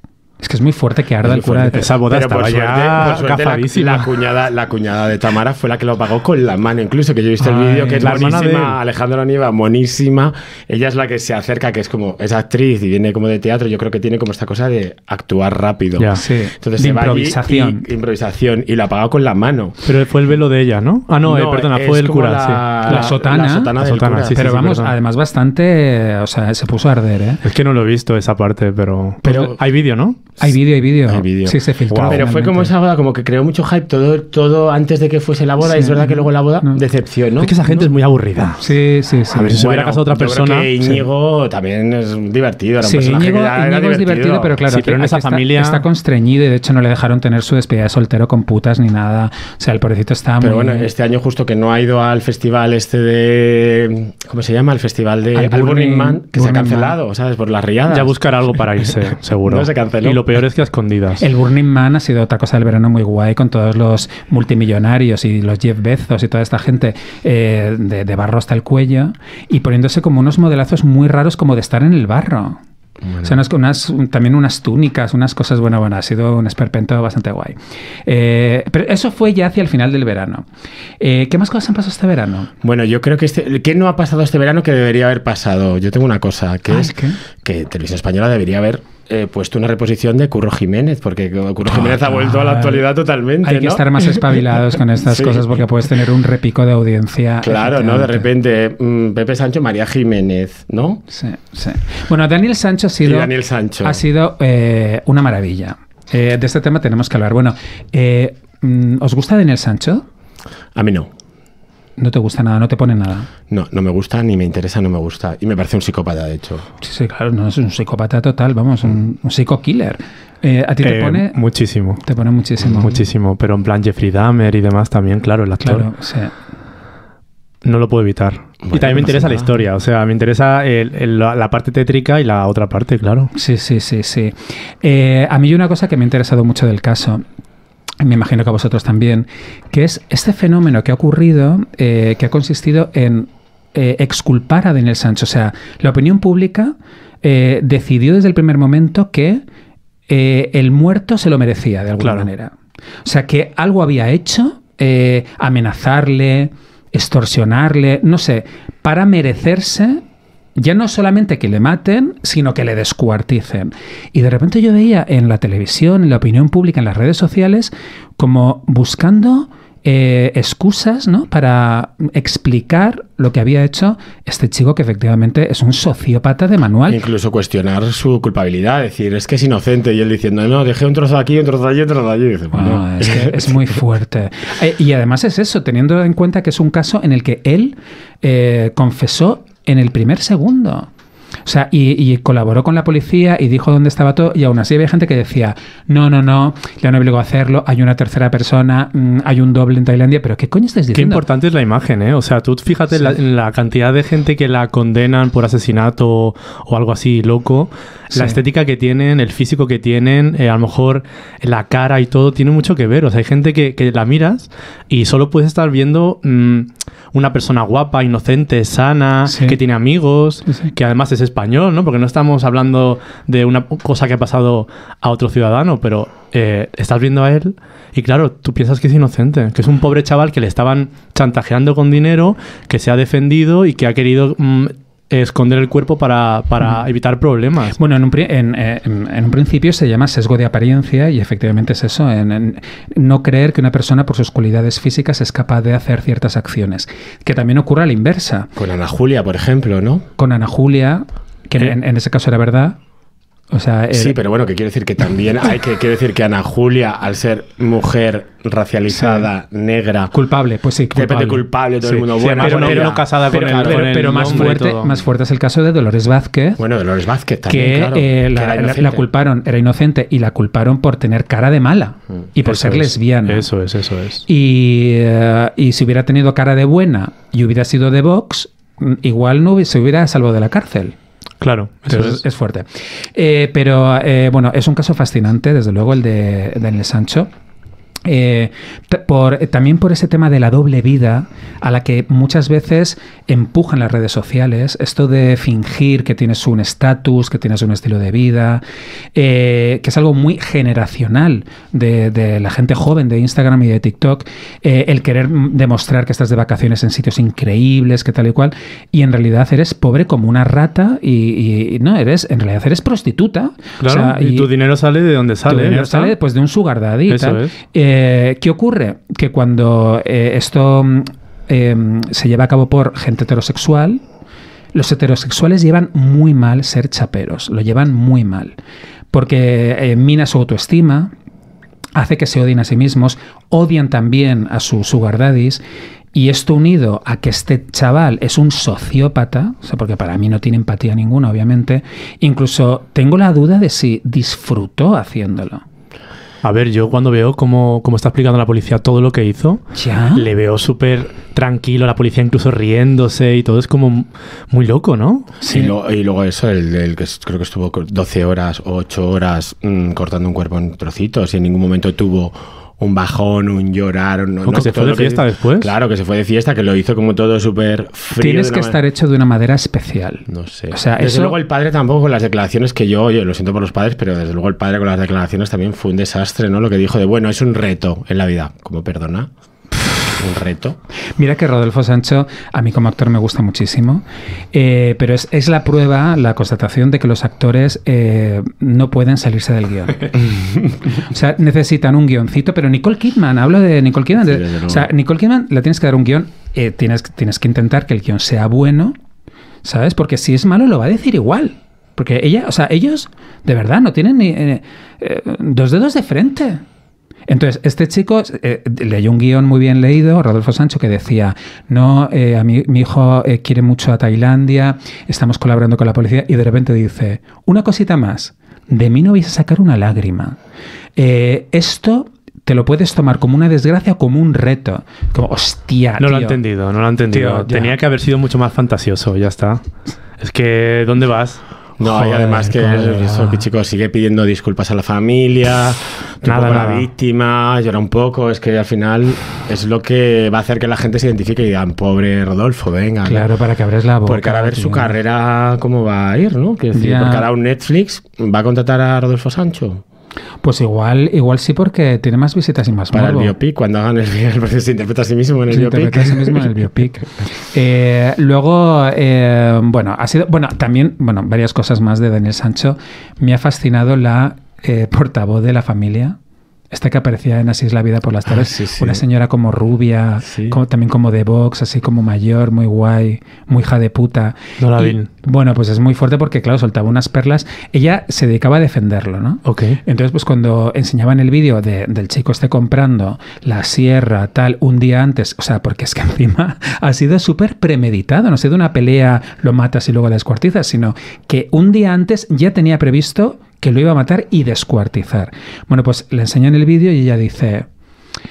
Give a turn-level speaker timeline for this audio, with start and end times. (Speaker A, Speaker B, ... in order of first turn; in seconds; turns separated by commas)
Speaker A: 0.4-1.9, Speaker B: 1.2-19.8, Speaker C: 1.7-4.1, Speaker A: 7.4-8.2, Speaker C: 8.0-8.8, Speaker A: 16.1-17.9, Speaker C: 19.8-23.1, Speaker B: 21.2-24.5, Speaker A: 22.9-23.7, Speaker C: 23.8-24.9, Speaker A: 24.3-27.4, Speaker C: 27.4-30.2, Speaker B: 29.3-29.5, Speaker A: 30.4-32.7, Speaker B: 31.1-37.9, Speaker C: 31.9-32.2, Speaker A: 35.6-36.8, Speaker C: 37.4-38.6, Speaker A: 38.6-39.6, Speaker C: 39.3-40.7, Speaker B: 39.4-44.6, Speaker A: 42.8-50.9, Speaker C: 44.7-45.8, Speaker B: 50.4-58.1, Speaker A: 55.4-57.0, Speaker C: 57.9-61.2, Speaker B: 59.4-60.2, Speaker A: 61.2-72.6, Speaker B: 73.0-73.5, Speaker A: 73.2-80.5, Speaker A: 81.0-82.5, Speaker B: 82.6-94.5, Speaker A: 86.7-87.2, Speaker A: 91.7-92.9, Speaker A: 93.4-98.3, Speaker B: 95.0-95.6, Speaker B: 97.4-101.0, Speaker A: 101.1-110.0, Speaker B: 103.0-104.0, Speaker B: 110.8-111.1, Speaker A: 112.0-113.3, Speaker B: 113.5-116.7, Speaker A: 116.8-121.4, Speaker C: 120.8-122.0, Speaker A: 122.0-123.0, Speaker C: 122.6-125.9, Speaker A: 125.6-126.3, Speaker C: 127.6-133.3, Speaker B: 128.6-129.6, Speaker A: 133.3-137.2, Speaker A: 138.0-149.4, Speaker A: 150.1-152.5, Speaker C: 152.0-152.3, Speaker A: 153.1-160.0, Speaker A: 160.6-177.0, Speaker B: 176.9-183.8, Speaker A: 182.5-190.9, Speaker A: 191.5-201.2, Speaker C: 200.9-237.8, Speaker A: 208.1-208.4, Speaker A: 219.3-219.6, Speaker A: 220.5-220.7, Speaker A: 237.8-248.5, Speaker B: 248.6-250.1, Speaker A: 250.2-252.8, Speaker A: 253.5-254.2, Speaker B: 253.9-260.1, Speaker A: 258.9-259.3, Speaker A: 260.1-261.4, Speaker B: 260.9-264.5, Speaker C: 261.9-264.9, Speaker A: 262.4-266.6, Speaker B: 266.6-269.1, Speaker A: 267.5-273.5, Speaker C: 272.5-274.3, Speaker A: 274.3-281.0, Speaker C: 281.4-282.2, Speaker A: 281.9-287.3, Speaker A: 288.1-298.6, Speaker A: 299.1-314.5, Speaker C: 313.8-316.1, Speaker A: 315.5-324.0, Speaker C: 317.1-317.5, Speaker A: 324.7-328.6, Speaker A: 329.1-331.1, Speaker A: 332.0-335.6, Speaker A: 336.1-345.6, Speaker C: 346.4-349.6, Speaker A: 349.7-350.3, Speaker C: 350.1-355.4, Speaker A: 355.4-355.7, Speaker B: 355.4-368.8, Speaker C: 364.4-365.7, Speaker A: 368.2-371.4, Speaker B: 370.3-379.3, Speaker B: 380.2-380.8, Speaker A: 381.2-390.2, Speaker B: 390.2-390.8, Speaker A: 390.9-399.0, Speaker B: 394.2-394.9, Speaker A: 399.6-406.6, Speaker A: 407.3-420.4, Speaker A: 421.0-426.4, Speaker C: 426.0-429.6, Speaker A: 427.1-427.8, Speaker C: 430.2-431.4, Speaker B: 431.8-443.3, Speaker A: 431.8-433.5, Speaker C: 436.2-436.9, Speaker A: 443.1-445.0, Speaker B: 444.1-449.8, Speaker A: 446.7-447.3, Speaker A: 450.4-453.3, Speaker B: 452.9-456.5, Speaker A: 455.5-466.2, Speaker A: 466.7-497.7, Speaker B: 468.3-469.0, Speaker B: 470.2-470.6, Speaker C: 474.6-475.1, Speaker C: 479.4-479.8